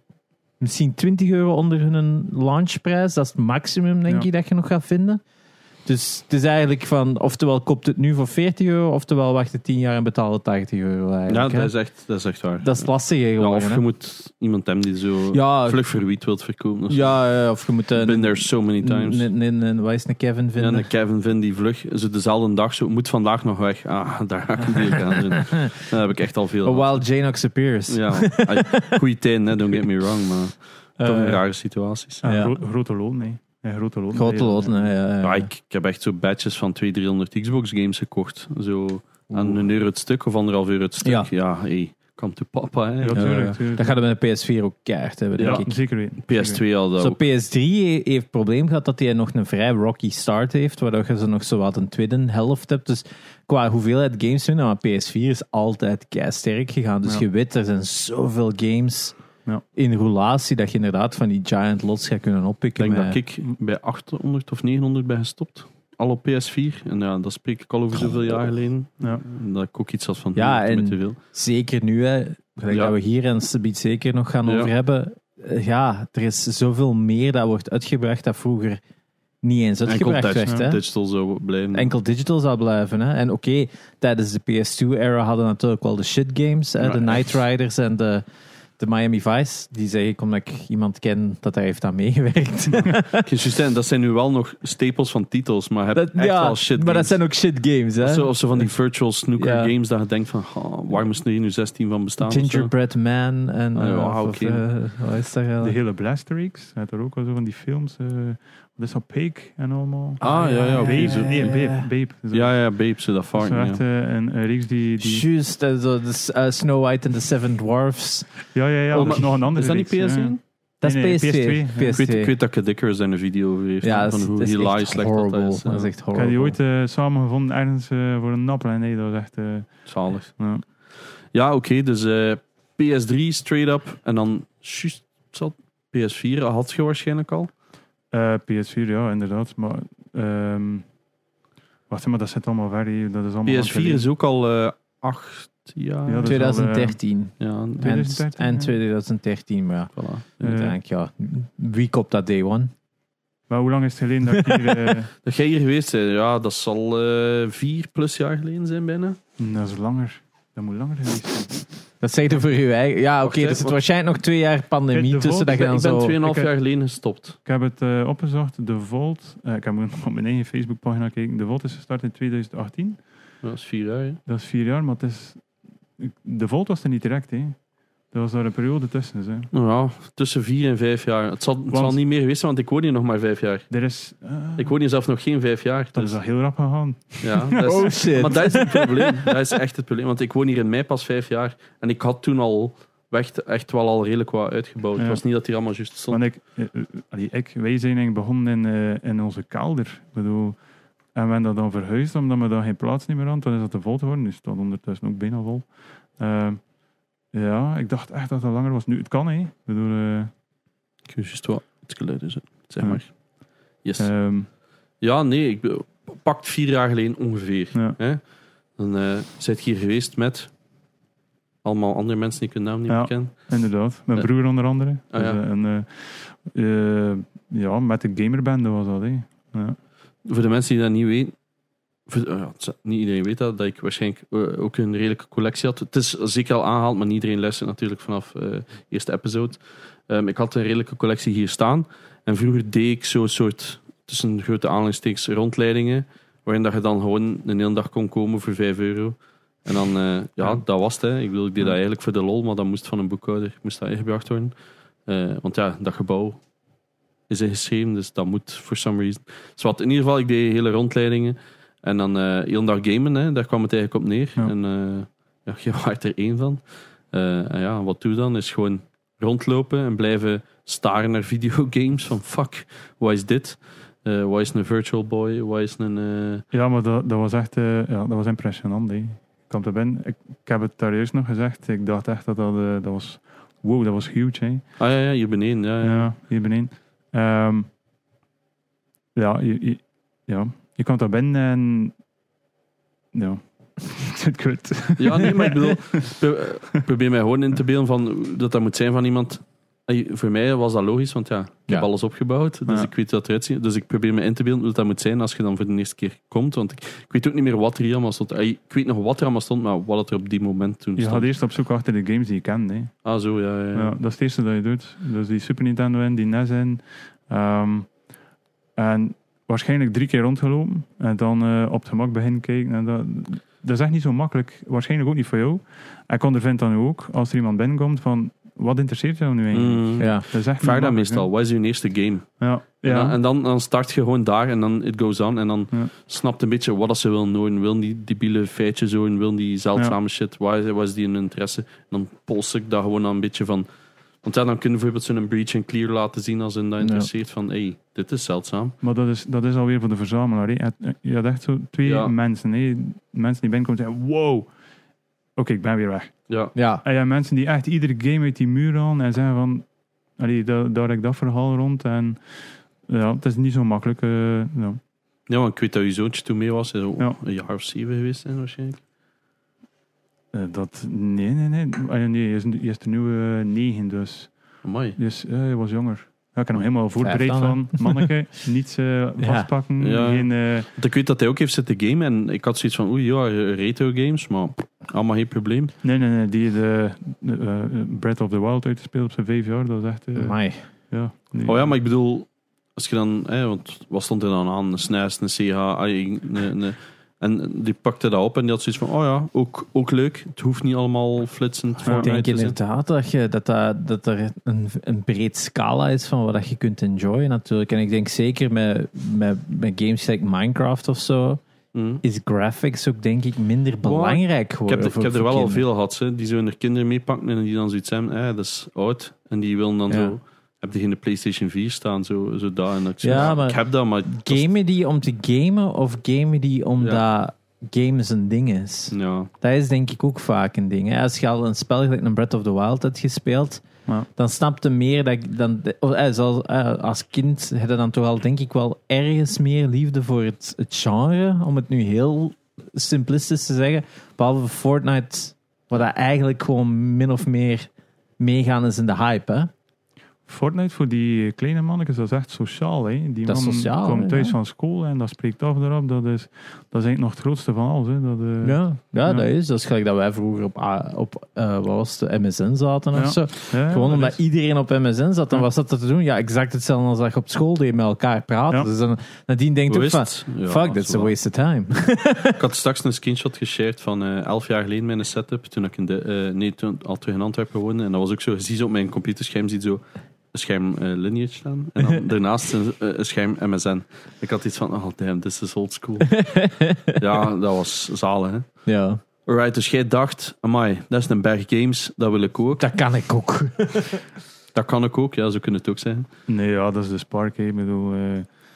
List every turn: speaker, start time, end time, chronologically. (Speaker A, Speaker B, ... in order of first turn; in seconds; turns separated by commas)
Speaker A: 0.6-5.2, Speaker A: 5.8-11.7, Speaker B: 11.3-12.8, Speaker A: 12.6-13.8, Speaker B: 13.4-17.2, Speaker A: 15.3-15.8, Speaker A: 16.9-20.9, Speaker B: 17.9-19.3, Speaker B: 20.6-27.0, Speaker A: 24.8-25.9, Speaker A: 26.6-29.0, Speaker B: 27.9-32.4, Speaker A: 31.0-31.4, Speaker C: 32.2-34.9, Speaker A: 32.2-32.5, Speaker A: 34.1-35.5, Speaker B: 35.2-43.4, Speaker C: 39.3-39.7, Speaker A: 41.0-41.3, Speaker C: 43.0-43.9, Speaker A: 43.1-45.8, Speaker B: 45.4-47.2, Speaker C: 45.4-46.6, Speaker A: 47.0-59.1, Speaker A: 59.8-63.2, Speaker B: 62.8-71.2, Speaker A: 70.3-78.8, Speaker B: 72.7-73.0, Speaker B: 74.5-74.7, Speaker A: 79.4-80.8, Speaker B: 79.9-81.9, Speaker A: 81.7-88.2, Speaker B: 86.8-87.4, Speaker A: 88.8-93.3, Speaker B: 93.2-97.2, Speaker A: 95.9-98.7, Speaker B: 98.0-102.7, Speaker A: 99.4-99.7, Speaker A: 102.2-105.8, Speaker B: 103.8-104.6, Speaker C: 105.6-115.3, Speaker B: 110.2-111.6, Speaker A: 110.2-111.9, Speaker B: 112.3-113.8, Speaker A: 115.0-119.2, Speaker C: 118.5-122.0, Speaker B: 118.9-120.4, Speaker A: 120.8-122.3, Speaker B: 121.9-125.9, Speaker A: 123.8-126.6, Speaker C: 126.1-130.6, Speaker B: 129.9-130.3, Speaker B: 131.3-137.5, Speaker C: 138.1-140.9, Speaker C: 141.9-144.1, Speaker B: 143.4-146.4, Speaker C: 146.1-147.0, Speaker A: 146.3-152.7, Speaker B: 147.4-147.9, Speaker C: 147.8-148.8, Speaker B: 149.9-150.4, Speaker C: 150.4-150.8, Speaker C: 153.5-155.1, Speaker B: 155.2-159.2, Speaker C: 159.4-161.7, Speaker A: 162.0-166.2, Speaker B: 163.2-163.8, Speaker C: 164.9-165.6, Speaker B: 165.5-167.4, Speaker C: 166.2-166.5, Speaker C: 167.4-173.1, Speaker B: 173.4-174.2, Speaker C: 174.3-175.5, Speaker C: 176.0-179.5, Speaker B: 179.5-183.7, Speaker C: 181.7-182.0, Speaker C: 183.7-184.7, Speaker B: 184.6-186.2, Speaker C: 186.0-187.8, Speaker B: 187.2-196.2, Speaker A: 187.6-189.2, Speaker C: 196.1-200.6, Speaker C: 201.1-206.6, Speaker C: 207.3-210.3, Speaker B: 211.1-213.2, Speaker C: 212.8-213.1, Speaker B: 213.8-214.1, Speaker C: 214.0-214.5, Speaker B: 215.0-220.5, Speaker B: 221.6-223.6, Speaker C: 222.9-229.8, Speaker B: 225.1-225.4, Speaker B: 230.2-231.4, Speaker B: 232.1-256.4, Speaker B: 257.3-276.4, Speaker C: 276.5-284.7, Speaker B: 284.8-286.1, Speaker C: 285.8-287.7, Speaker C: 289.1-291.9, Speaker C: 293.1-296.1, Speaker B: 295.0-311.3, Speaker C: 311.0-313.1, Speaker B: 313.0-313.9, Speaker C: 313.7-318.0, Speaker C: 318.8-331.3, Speaker B: 329.5-343.7, Speaker A: 330.0-330.3, Speaker C: 332.4-333.2, Speaker B: 344.2-348.8, Speaker A: 346.8-347.1, Speaker C: 348.8-354.5, Speaker B: 351.8-352.1, Speaker C: 355.4-364.8, Speaker B: 356.3-356.6, Speaker A: 356.6-356.8, Speaker B: 365.3-368.8, Speaker C: 370.3-380.7, Speaker B: 374.6-375.0, Speaker A: 376.6-378.1, Speaker A: 379.2-379.5, Speaker B: 379.8-385.7, Speaker C: 385.8-390.4, Speaker A: 390.1-390.6, Speaker C: 390.9-391.7, Speaker B: 391.4-402.6, Speaker A: 401.8-411.4, Speaker C: 401.9-402.1, Speaker B: 411.7-412.0, Speaker A: 412.0-415.6, Speaker B: 413.8-424.5, Speaker A: 419.9-420.1, Speaker A: 423.0-433.6, Speaker B: 428.9-429.3, Speaker A: 434.2-449.5, Speaker C: 450.3-459.3, Speaker A: 453.3-454.4, Speaker A: 458.4-472.4, Speaker C: 462.9-464.2, Speaker B: 469.7-471.1, Speaker B: 472.4-486.2, Speaker A: 486.1-487.0, Speaker B: 487.0-488.5, Speaker A: 488.7-489.0, Speaker B: 489.3-492.6, Speaker A: 492.6-494.0, Speaker B: 494.5-496.1, Speaker C: 496.3-498.3